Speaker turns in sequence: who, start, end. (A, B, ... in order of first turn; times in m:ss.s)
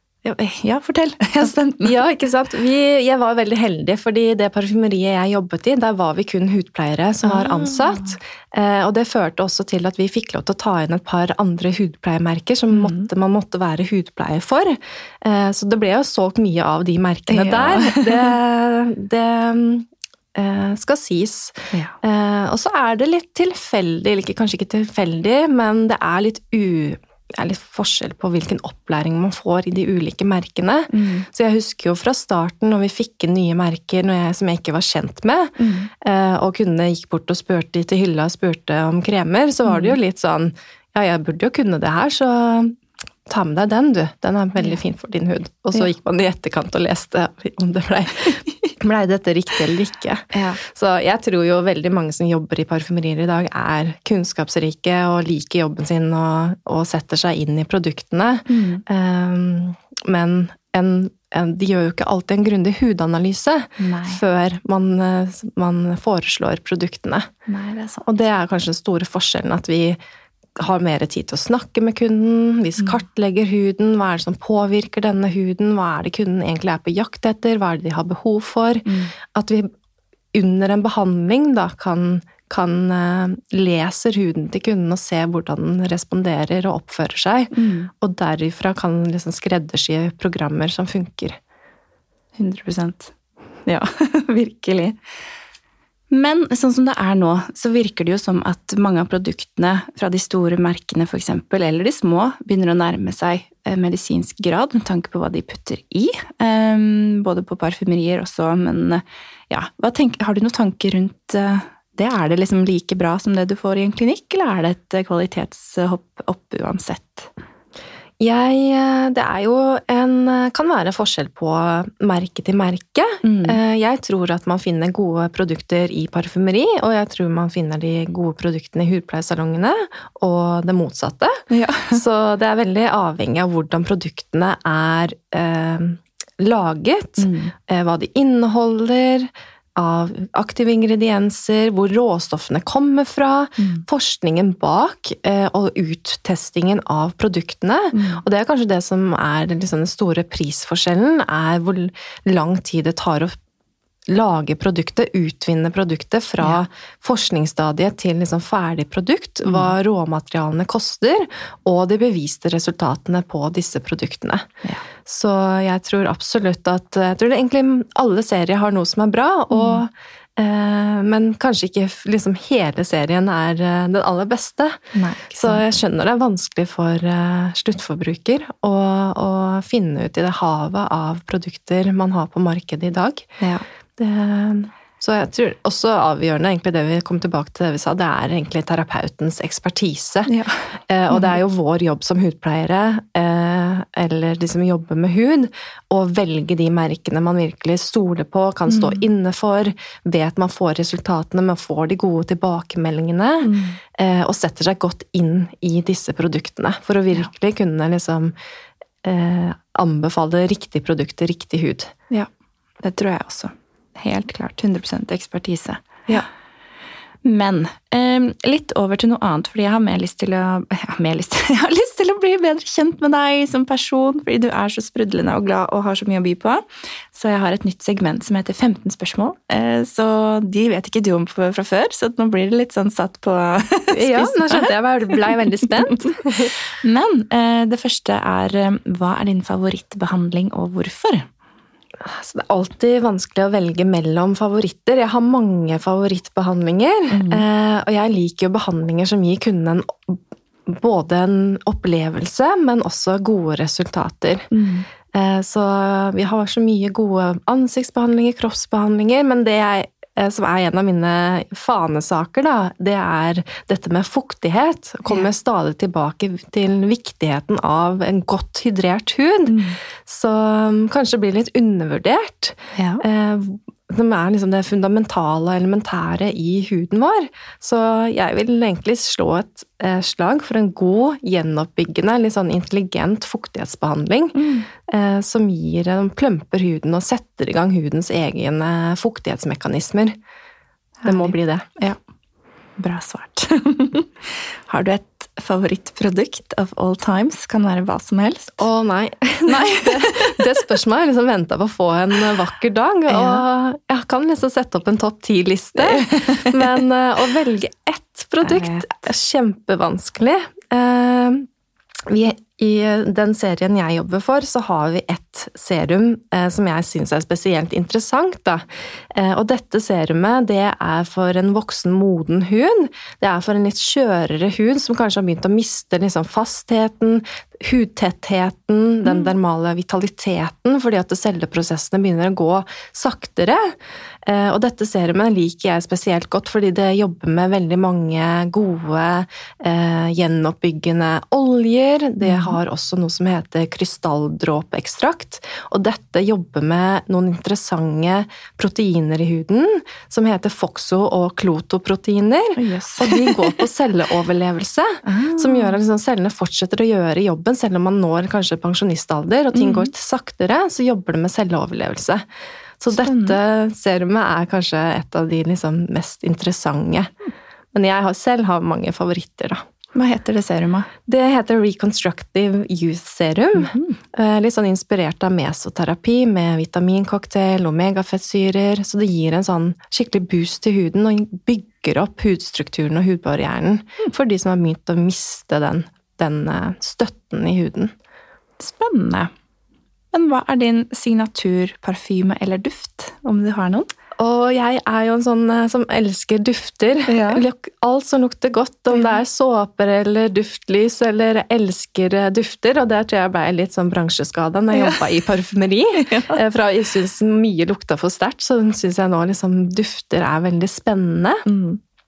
0:00.2-0:02.0 A
0:01.4-1:07.3 B
0:07.2-0:08.2 A
0:12.7-0:13.1 A
0:17.3-0:18.3 A
0:30.9-0:31.3 A
0:35.6-0:35.9 A
0:39.6-0:40.0 A
0:50.3-0:50.6 A
0:58.5-0:58.8 A
1:03.8-1:04.2 A
1:07.5-1:08.1 A
1:08.0-1:10.0 B
1:10.6-1:19.7 B
1:18.9-1:19.1 A
1:20.3-1:31.4 B
1:27.5-1:27.9 A
1:32.4-1:33.1 A
1:33.7-1:35.0 A
1:36.1-1:57.3 A
1:58.2-2:33.4 B
2:03.2-2:03.6 A
2:11.5-2:12.0 A
2:17.2-2:17.5 A
2:23.6-2:23.8 A
2:27.9-2:28.2 A
2:34.1-2:44.5 B
2:39.4-2:39.7 A
2:45.0-3:03.4 B
2:49.5-2:49.8 A
2:54.9-2:55.6 A
3:03.4-3:03.6 A
3:04.0-3:10.3 B
3:10.3-3:11.3 A
3:10.9-3:28.3 B
3:18.7-3:19.0 A
3:23.4-3:23.8 A
3:29.0-3:31.9 B
3:32.8-3:36.3 A
3:37.2-3:54.7 A
3:53.9-3:56.6 B
3:55.3-3:55.6 A
3:56.7-4:01.3 A
4:02.0-4:14.5 B
4:07.1-4:07.4 A
4:14.5-4:14.9 A
4:15.1-4:50.2 B
4:29.5-4:29.8 A
4:32.8-4:33.0 A
4:44.4-4:44.7 A
4:51.0-4:52.0 A
4:51.1-4:51.7 B
4:52.8-4:58.6 A
4:58.6-5:11.5 B
4:59.5-5:00.6 A
5:03.1-5:03.4 A
5:05.8-5:06.6 A
5:08.4-5:08.9 A
5:12.1-6:02.2 B
5:29.0-5:29.3 A
5:42.2-5:42.6 A
5:52.6-5:53.6 A
5:55.0-5:55.8 A
5:59.5-5:59.9 A
6:02.8-6:07.1 B
6:02.9-6:03.4 A
6:07.7-6:09.6 B
6:10.0-6:10.9 A
6:11.1-6:27.9 B
6:13.6-6:14.0 A
6:28.6-6:29.3 A
6:30.1-6:33.9 A
6:34.2-6:51.4 B
6:37.1-6:37.4 A
6:44.7-6:45.2 A
6:46.0-6:46.4 A
6:51.5-6:51.8 A